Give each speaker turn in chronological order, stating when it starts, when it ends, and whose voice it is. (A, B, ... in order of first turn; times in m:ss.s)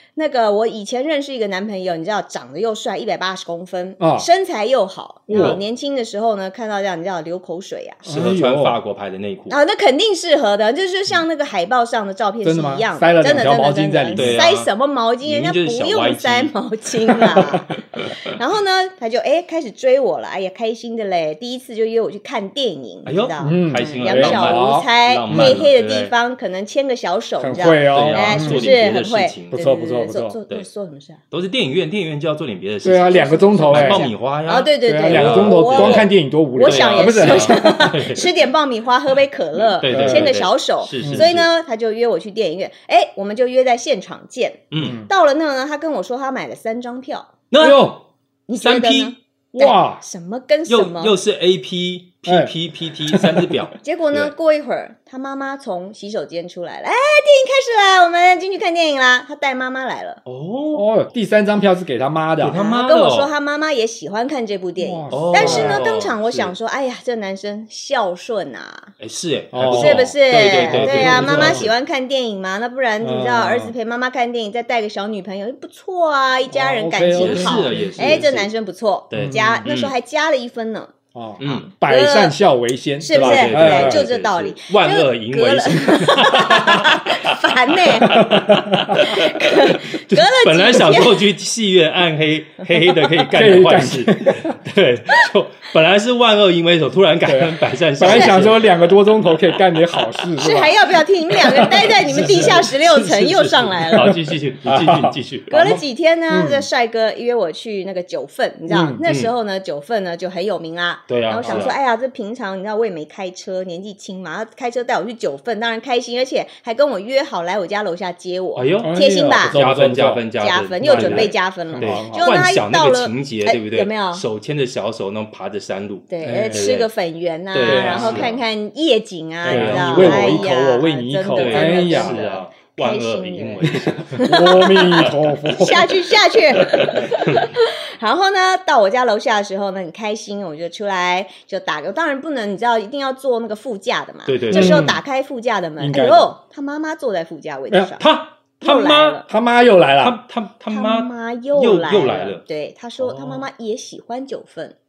0:00.2-0:08.0 A
0:04.0-0:04.3 B
0:05.3-0:05.6 B
0:05.3-0:05.6 C
0:08.0-0:08.8 B
0:08.0-0:09.6 C
0:09.5-0:31.2 A
0:12.4-0:14.4 B
0:14.1-0:14.7 C
0:15.2-0:16.5 C
0:23.0-0:26.1 C
0:23.4-0:25.7 B
0:27.4-0:28.7 B
0:27.8-0:29.6 C
0:29.5-0:30.4 B
0:31.3-0:38.4 C
0:32.8-0:34.0 B
0:33.1-0:47.3 A
0:34.8-0:38.0 B
0:39.6-0:41.5 C
0:39.9-0:40.4 B
0:41.0-0:41.3 B
0:44.7-0:45.0 C
0:44.8-0:45.1 B
0:47.5-0:47.9 C
0:47.6-0:48.0 B
0:48.5-0:51.2 A
0:48.6-0:49.2 C
0:49.6-0:50.0 B
0:50.7-0:54.3 C
0:52.2-0:52.5 B
0:53.1-0:53.5 B
0:53.8-1:00.2 A
1:00.2-1:00.9 C
1:00.7-1:02.6 B
1:02.4-1:03.3 C
1:02.5-1:08.9 A
1:04.8-1:05.8 B
1:05.1-1:06.5 C
1:09.0-1:11.7 C
1:09.5-1:11.7 B
1:09.7-1:22.4 A
1:13.0-1:13.7 B
1:16.5-1:18.3 B
1:17.1-1:18.5 C
1:19.1-1:19.9 C
1:19.1-1:19.7 B
1:21.1-1:24.0 B
1:21.4-1:21.7 C
1:23.0-1:28.3 A
1:23.1-1:27.4 C
1:28.0-1:38.7 C
1:28.1-1:29.1 B
1:29.0-1:31.3 A
1:33.3-1:34.6 B
1:37.2-1:42.6 B
1:38.0-1:38.7 A
1:40.4-1:44.1 A
1:41.6-1:45.8 C
1:43.9-1:45.1 B
1:45.5-1:59.6 A
1:46.3-1:46.7 B
1:48.7-1:49.0 B
1:49.0-1:49.3 C
1:51.1-1:51.8 C
1:51.4-1:51.7 B
1:58.5-2:06.9 C
1:58.8-2:00.2 B
2:00.4-2:04.2 A
2:00.8-2:02.3 B
2:06.1-2:28.0 A
2:06.2-2:06.7 B
2:07.5-2:08.4 C
2:07.6-2:08.3 B
2:09.4-2:12.4 B
2:09.4-2:10.5 C
2:11.3-2:14.3 C
2:13.6-2:17.1 B
2:16.7-2:17.5 C
2:24.2-2:24.9 C
2:24.5-2:25.0 B
2:25.8-2:26.3 B
2:28.0-2:29.2 C
2:28.6-2:29.2 A
2:29.3-2:30.2 B
2:30.0-2:32.4 C
2:30.7-2:34.7 A
2:33.0-2:33.5 C